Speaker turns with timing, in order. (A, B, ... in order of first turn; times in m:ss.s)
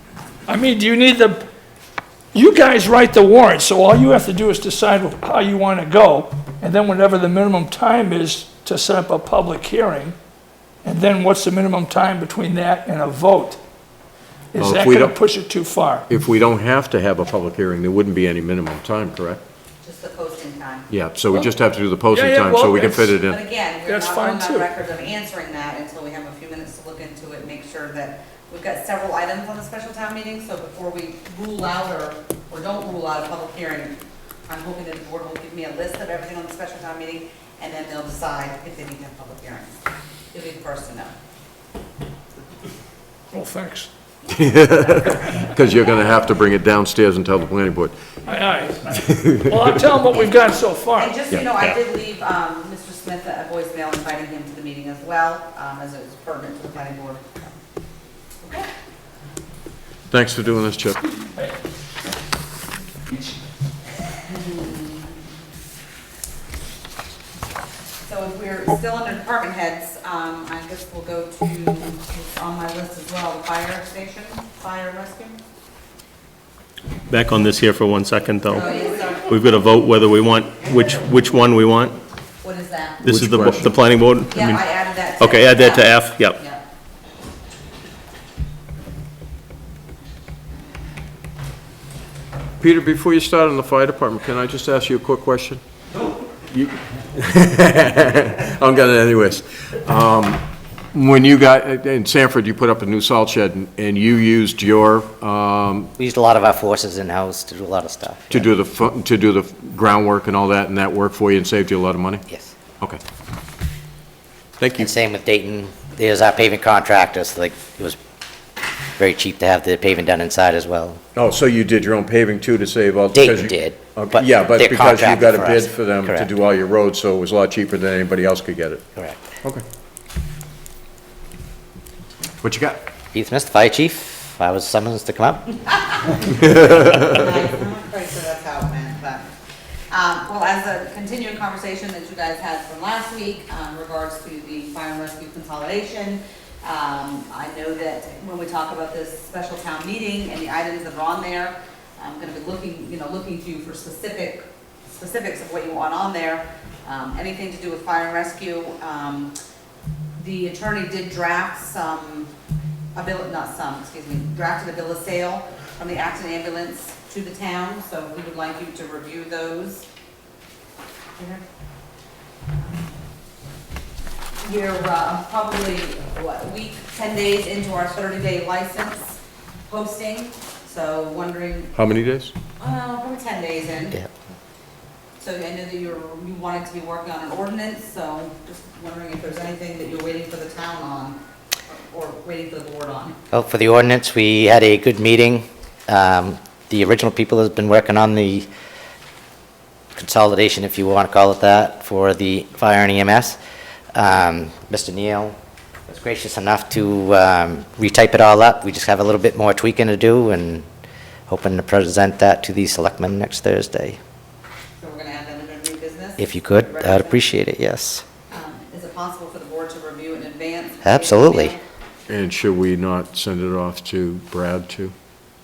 0:00.5-0:01.4 A
0:02.3-0:10.2 A
0:10.8-0:13.6 A
0:14.5-0:16.0 A
0:14.6-0:15.2 B
0:16.1-0:19.4 B
0:19.8-0:20.9 C
0:20.9-0:23.4 B
0:22.1-0:23.2 A
0:23.2-0:39.8 C
0:23.8-0:24.7 A
0:40.3-0:41.1 C
0:43.3-0:43.9 A
0:44.3-0:48.0 B
0:48.2-0:51.2 A
0:48.9-0:49.9 B
0:50.2-0:57.6 C
0:58.4-0:58.7 C
1:00.1-1:01.0 B
1:04.2-1:05.2 C
1:08.0-1:15.4 C
1:17.1-1:22.0 D
1:18.5-1:19.3 C
1:22.4-1:23.0 C
1:23.0-1:24.7 D
1:23.0-1:23.7 B
1:24.3-1:26.6 C
1:25.2-1:26.4 D
1:32.6-1:35.6 B
1:36.5-1:45.9 B
1:46.0-1:48.5 E
1:48.3-1:52.2 B
1:54.6-1:54.9 B
1:54.8-1:58.0 E
1:59.0-2:01.0 E
2:01.1-2:08.8 B
2:03.1-2:06.3 E
2:09.0-2:09.3 E
2:12.4-2:12.8 B
2:13.1-2:15.6 E
2:15.8-2:19.3 C
2:19.9-2:39.3 C
2:40.2-2:42.3 C
2:42.9-2:49.8 C
2:51.2-2:51.4 C
2:52.6-2:52.9 C
2:54.4-3:01.7 C
3:01.7-3:02.3 B
3:02.6-3:04.0 C
3:05.2-3:13.2 C
3:13.3-3:18.5 E
3:20.0-3:23.4 E
3:23.9-3:25.4 E
3:25.9-3:30.6 E
3:31.3-3:34.0 E
3:34.8-3:37.2 C
3:36.2-3:38.0 E
3:38.3-3:41.6 C
3:40.8-3:41.6 E
3:42.1-3:44.9 B